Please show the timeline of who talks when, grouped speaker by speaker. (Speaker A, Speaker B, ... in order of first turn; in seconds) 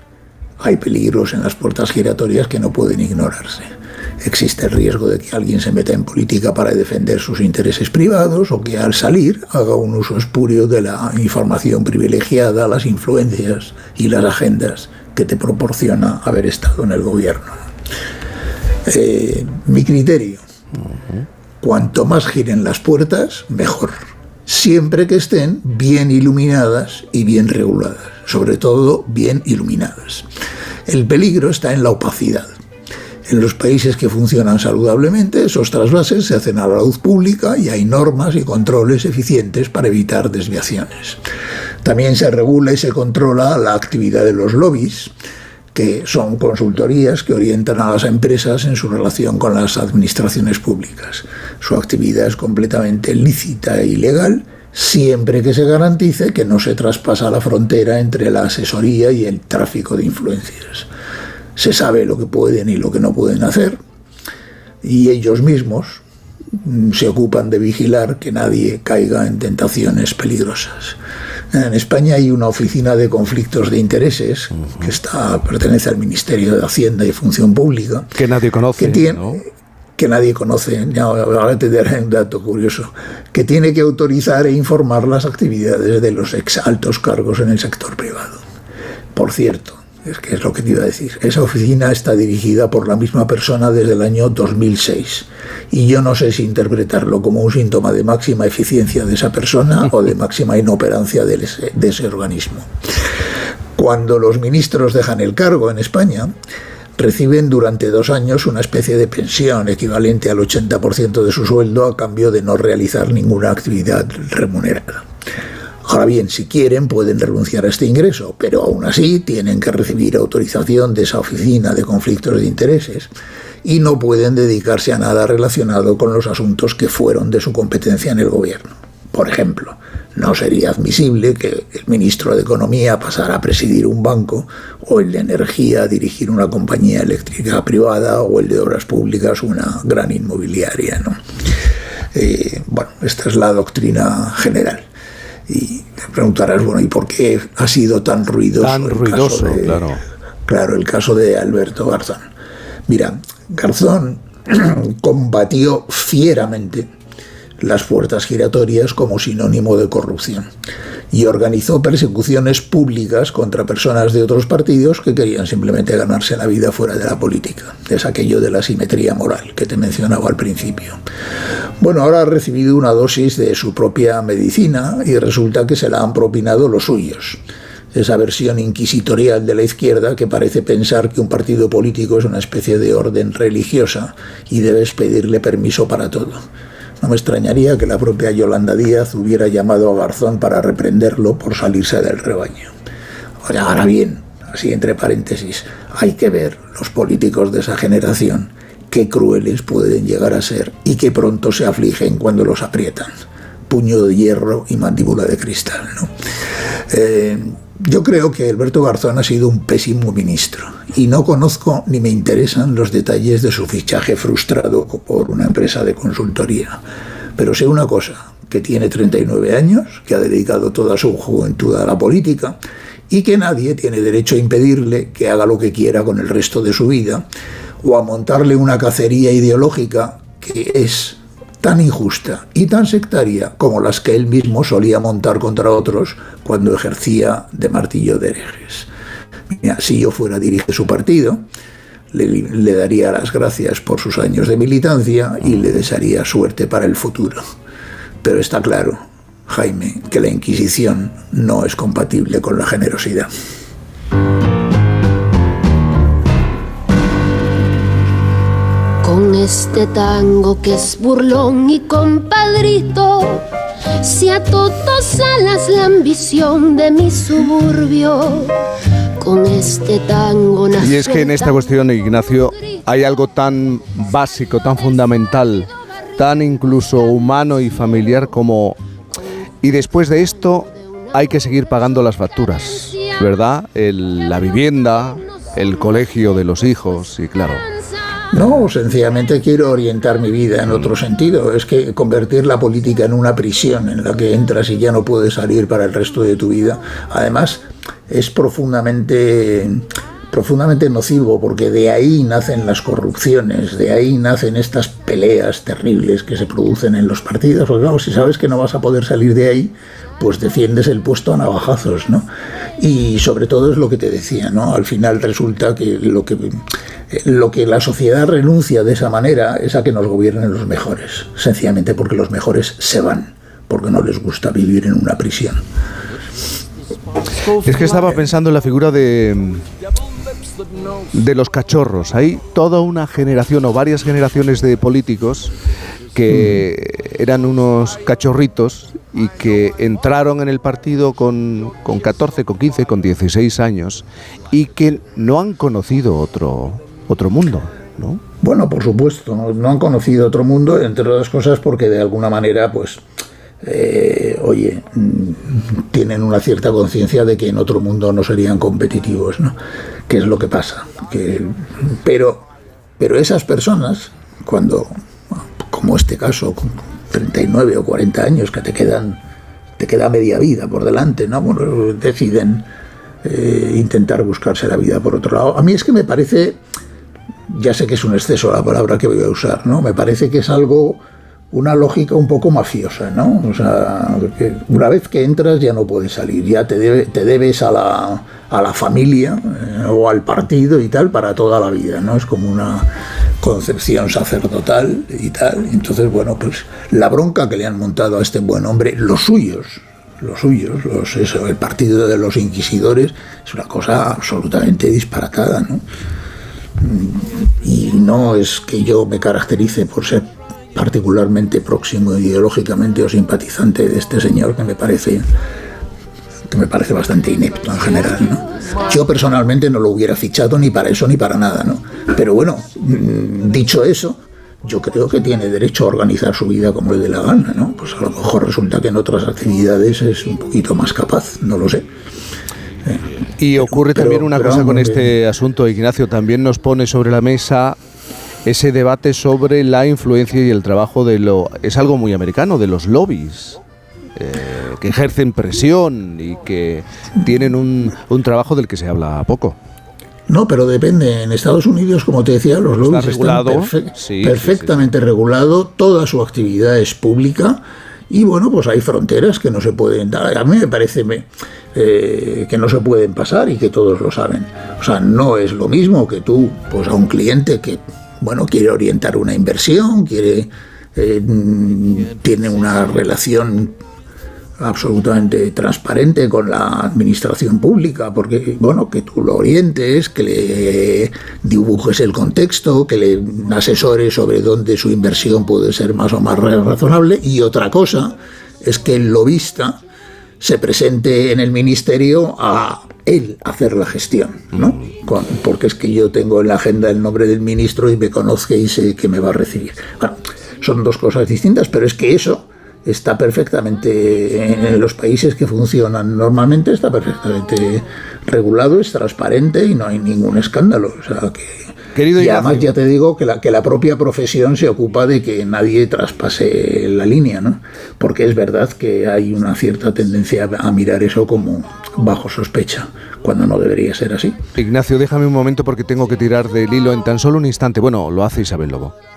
Speaker A: 0.6-17.6, 18.9-20.4, 21.6-23.9, 24.5-30.2, 30.9-32.5, 33.3-41.2, 41.8-45.1, 45.7-60.9, 61.5-63.8, 64.8-66.0, 66.6-71.0, 71.5-78.1, 78.8-88.4, 89.1-102.7, 103.8-106.3, 107.0-115.0, 115.8-123.1, 123.6-141.2, 142.1-144.8, 145.5-149.8, 150.5-152.3, 152.9-156.9, 157.6-160.5, 161.1-171.0, 171.8-177.4, 177.9-186.4, 187.0-192.7, 193.4-203.1, 203.7-206.1, 206.9-216.8, 217.4-222.6, 223.1-227.2, 227.8-238.9, 239.5-241.4, 242.1-247.4, 248.2-253.3, 288.3-325.6, 348.4-353.0, 353.6-359.6, 360.1-362.4, 363.0-369.2, 369.8-372.7, 373.2-376.6, 377.5-381.0, 381.5-392.9, 393.4-405.8, 406.8-415.2, 416.5-431.9, 433.6-435.1, 450.3-473.8, 474.6-489.8, 490.4-511.6, 512.1-524.4
Speaker B: 78.1-79.4, 148.6-150.0, 270.7-278.8, 279.6-287.7, 327.6-329.6, 331.1-335.5, 336.1-348.2, 433.4-437.8, 438.4-443.6, 444.1-449.6, 452.8-454.9, 511.9-512.7, 524.6-528.9
Speaker C: 259.0-268.6, 269.2-271.6